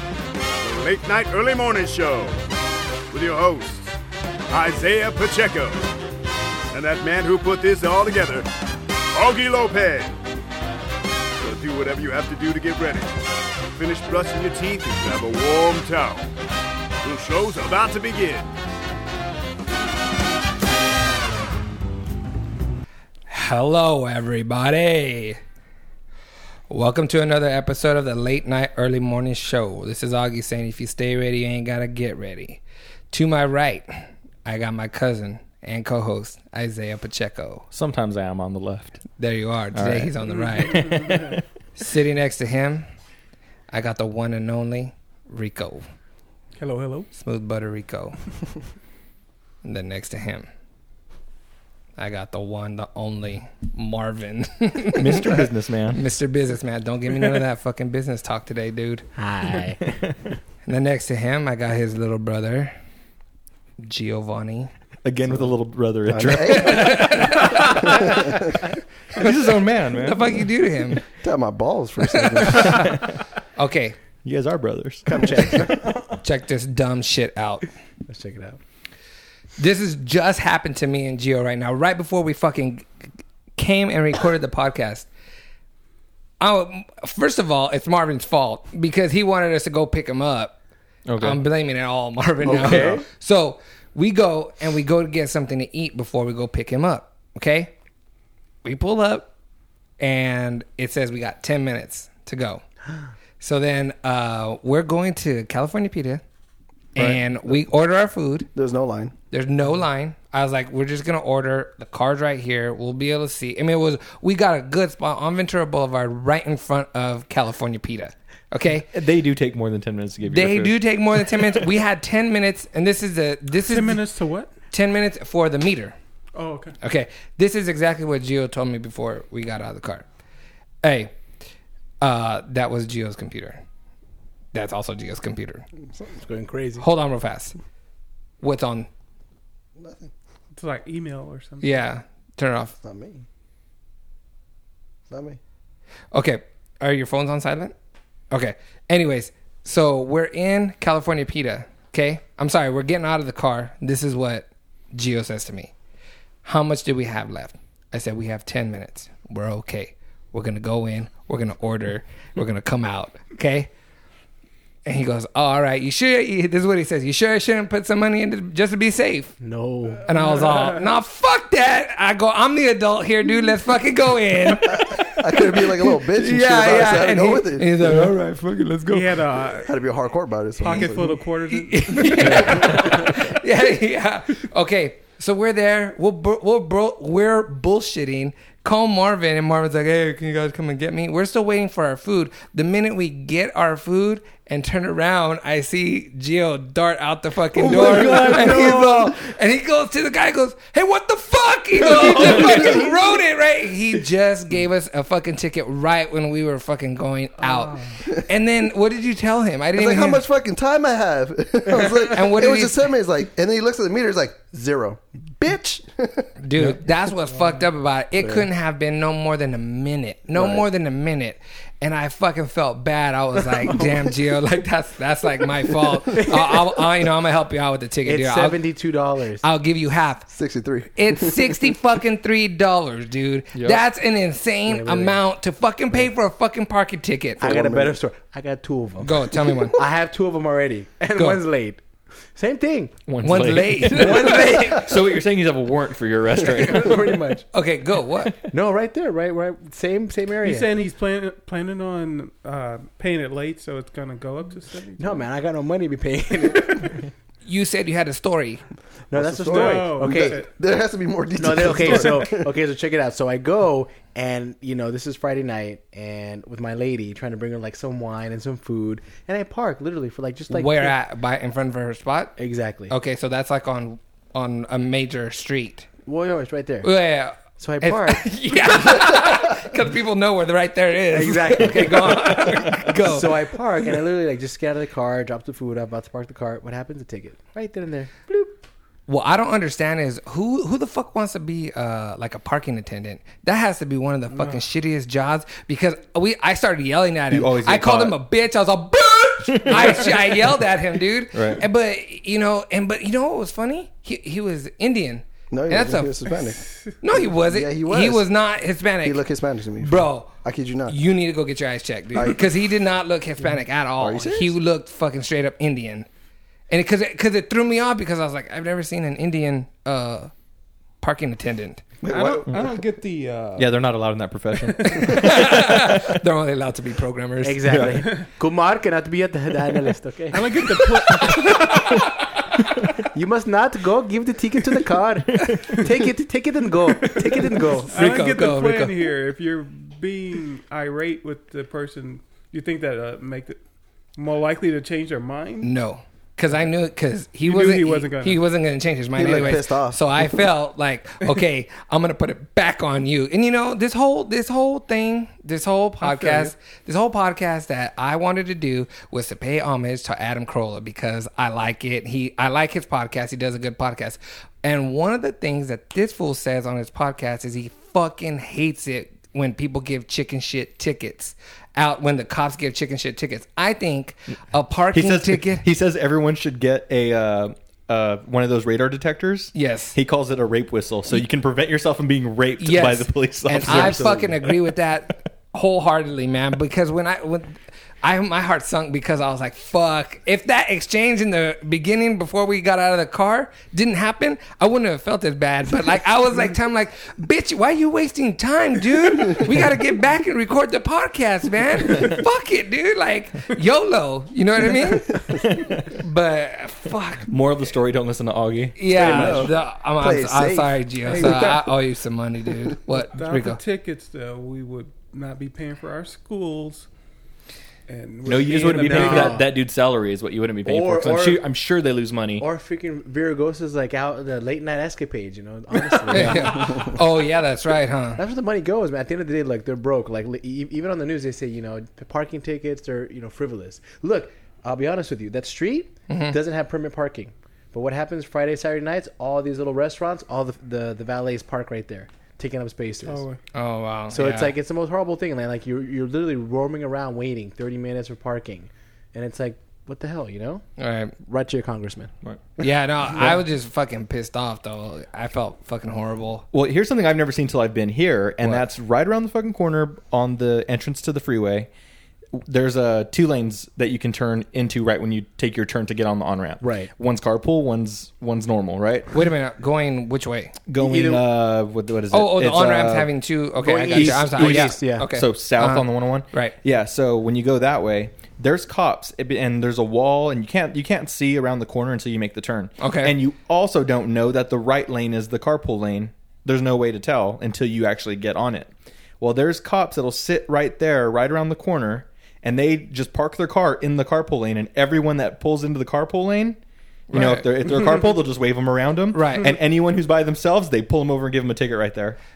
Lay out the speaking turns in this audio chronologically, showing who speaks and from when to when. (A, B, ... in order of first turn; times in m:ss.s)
0:00.6-0:02.4 A
0:03.1-0:03.9 A
0:04.5-0:05.9 A
0:06.7-0:08.5 A
0:09.1-0:10.2 A
0:11.4-0:13.2 A
0:13.7-0:16.3 A
0:17.0-0:18.5 A
0:23.3-0:25.4 B
0:26.7-0:32.6 B
0:33.1-0:37.6 B
0:37.7-0:39.0 C
0:39.2-0:41.0 B
0:39.7-0:41.4 C
0:41.8-0:42.8 B
0:43.7-0:45.8 B
0:46.6-0:47.1 D
0:47.1-0:48.2 B
0:49.6-0:50.5 B
0:52.0-0:55.4 B
0:55.0-0:56.0 C
0:55.9-0:59.1 B
0:59.2-1:00.1 E
1:00.6-1:02.7 B
1:03.8-1:04.7 B
1:05.0-1:08.2 C
1:06.1-1:08.5 F
1:06.5-1:08.0 B
1:09.1-1:10.4 C
1:09.9-1:11.0 B
1:11.2-1:12.9 F
1:12.2-1:12.9 B
1:12.6-1:13.1 C
1:13.6-1:14.0 B
1:14.2-1:15.1 C
1:15.1-1:15.8 F
1:15.1-1:15.9 E
1:16.2-1:17.7 B
1:18.1-1:18.6 E
1:19.6-1:22.8 B
1:23.6-1:25.1 B
1:26.4-1:30.5 B
1:31.0-1:31.4 C
1:31.2-1:37.7 B
1:32.4-1:33.0 E
1:32.4-1:33.0 C
1:38.6-1:39.3 B
1:40.0-1:42.6 B
1:43.4-1:46.2 B
1:46.9-1:48.5 B
1:48.5-1:49.1 F
1:49.3-1:58.9 B
1:58.9-2:01.6 C
2:00.3-2:04.0 B
2:03.6-2:04.5 D
2:04.7-2:05.9 B
2:06.3-2:06.8 D
2:06.8-2:10.0 B
2:10.8-2:11.1 B
2:12.0-2:13.6 B
2:14.5-2:15.6 B
2:16.1-2:16.9 E
2:16.8-2:17.5 B
2:18.4-2:18.9 B
2:19.8-2:20.1 F
2:20.5-2:21.8 D
2:21.6-2:22.8 B
2:22.8-2:23.2 F
2:25.1-2:25.4 F
2:26.1-2:27.7 B
2:28.3-2:35.7 B
2:36.4-2:43.7 B
2:44.8-2:49.3 B
2:49.4-2:50.0 E
2:50.1-2:59.2 B
2:50.1-2:50.8 D
2:54.6-2:58.1 F
2:58.9-2:59.7 D
2:59.6-3:01.2 F
3:00.6-3:02.7 D
3:01.5-3:30.2 B
3:02.3-3:02.7 F
3:17.6-3:19.0 C
3:22.3-3:22.7 D
3:27.4-3:28.0 D
3:29.7-3:36.7 F
3:32.1-3:32.9 B
3:36.4-3:48.6 B
3:38.2-3:38.5 F
3:40.3-3:40.6 F
3:46.2-3:46.6 E
3:48.0-3:49.4 E
3:49.4-3:50.3 B
3:50.3-3:51.8 F
3:51.0-3:57.7 B
3:53.5-3:53.8 C
3:54.7-3:55.2 E
3:57.4-4:01.8 E
3:57.4-3:57.9 F
3:59.0-3:59.8 B
4:01.1-4:01.4 B
4:02.3-4:02.9 E
4:03.1-4:07.2 C
4:03.2-4:04.8 B
4:03.9-4:04.9 E
4:06.4-4:07.4 E
4:07.5-4:08.4 B
4:08.5-4:10.8 E
4:10.4-4:15.2 D
4:15.0-4:17.0 E
4:17.4-4:18.6 B
4:19.1-4:20.4 E
4:19.1-4:22.5 F
4:19.4-4:20.5 D
4:21.4-4:30.9 E
4:21.8-4:22.1 D
4:30.5-4:32.3 B
4:32.4-4:32.9 E
4:32.9-4:35.9 B
4:36.0-4:36.9 E
4:36.8-4:43.3 B
4:37.6-4:39.4 E
4:41.1-4:48.3 E
4:49.1-5:06.2 B
4:57.3-4:58.2 C
4:59.5-5:00.5 C
5:01.3-5:01.6 C
5:05.5-5:06.6 F
5:07.0-5:09.2 B
5:07.2-5:08.3 F
5:09.0-5:11.0 F
5:09.8-5:10.3 B
5:10.9-5:16.0 B
5:12.1-5:12.4 F
5:14.0-5:14.6 F
5:16.7-5:20.3 B
5:21.0-5:21.8 B
5:22.0-5:22.5 F
5:22.1-5:23.8 D
5:23.6-5:26.0 C
5:24.6-5:25.5 D
5:24.9-5:27.6 B
5:27.4-5:31.2 E
5:27.6-5:28.0 C
5:30.3-5:32.1 D
5:33.1-5:37.9 E
5:37.9-5:43.6 D
5:37.9-5:39.0 B
5:44.2-5:45.7 D
5:45.6-6:15.6 B
5:47.4-5:48.4 D
5:49.2-5:50.4 F
5:56.0-5:56.5 D
6:14.9-6:24.5 C
6:19.5-6:20.0 B
6:22.6-6:45.2 B
6:23.6-6:24.3 E
6:45.4-6:45.9 C
6:46.0-6:47.3 B
6:47.3-6:49.5 C
6:48.8-6:53.6 B
6:48.9-6:51.6 F
6:51.1-6:51.5 D
6:52.9-6:56.9 D
6:57.9-6:59.4 D
6:58.2-7:02.4 C
6:58.7-6:59.5 E
7:00.6-7:01.4 E
7:02.4-7:06.9 E
7:06.1-7:08.2 B
7:08.2-7:23.3 E
7:16.1-7:16.4 B
7:23.0-7:23.4 D
7:23.5-7:24.5 B
7:24.1-7:30.6 E
7:30.8-7:31.1 B
7:31.2-7:32.1 E
7:32.6-7:36.4 B
7:36.5-7:41.7 C
7:42.3-7:49.1 C
7:46.6-7:46.9 E
7:49.1-7:50.5 B
7:50.7-7:53.1 C
7:50.8-7:51.2 E
7:52.1-7:56.5 B
7:53.6-7:55.1 E
7:53.9-8:08.7 C
8:02.8-8:03.1 B
8:09.2-8:16.6 C
8:17.1-8:17.4 B
8:17.1-8:22.2 C
8:19.1-8:19.5 B